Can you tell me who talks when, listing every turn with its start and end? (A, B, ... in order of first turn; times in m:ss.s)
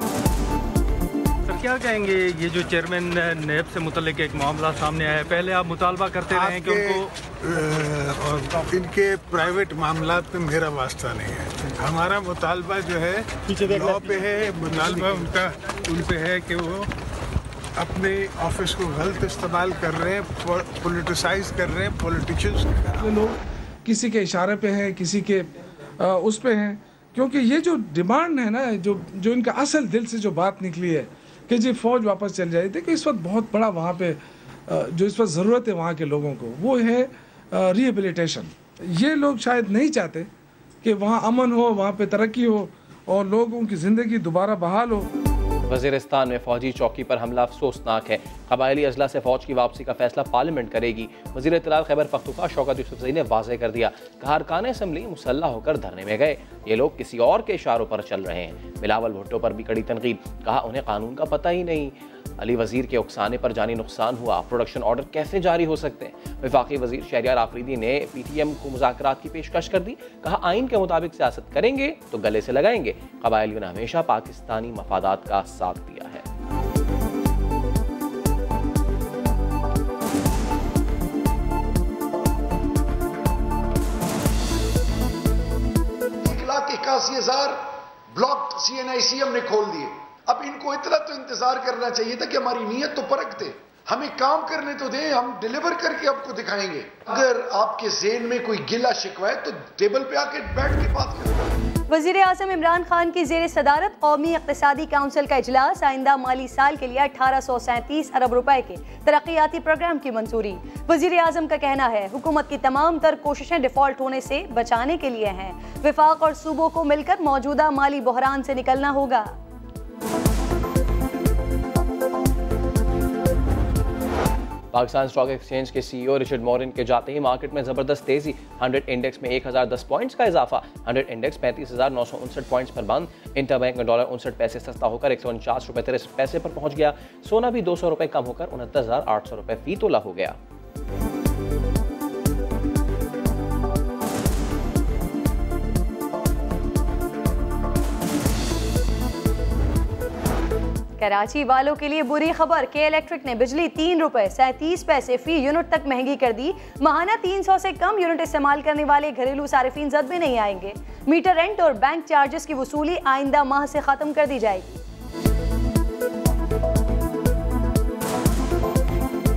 0:01.5-0:07.1 A
0:06.3-0:16.9 B
0:17.8-0:23.1 B
0:23.0-0:25.5 C
0:26.0-0:40.3 C
0:40.8-0:45.1 C
0:45.7-1:16.2 D
1:26.2-1:41.4 E
1:41.9-1:59.3 F
2:04.7-2:20.4 D
2:31.0-2:44.8 F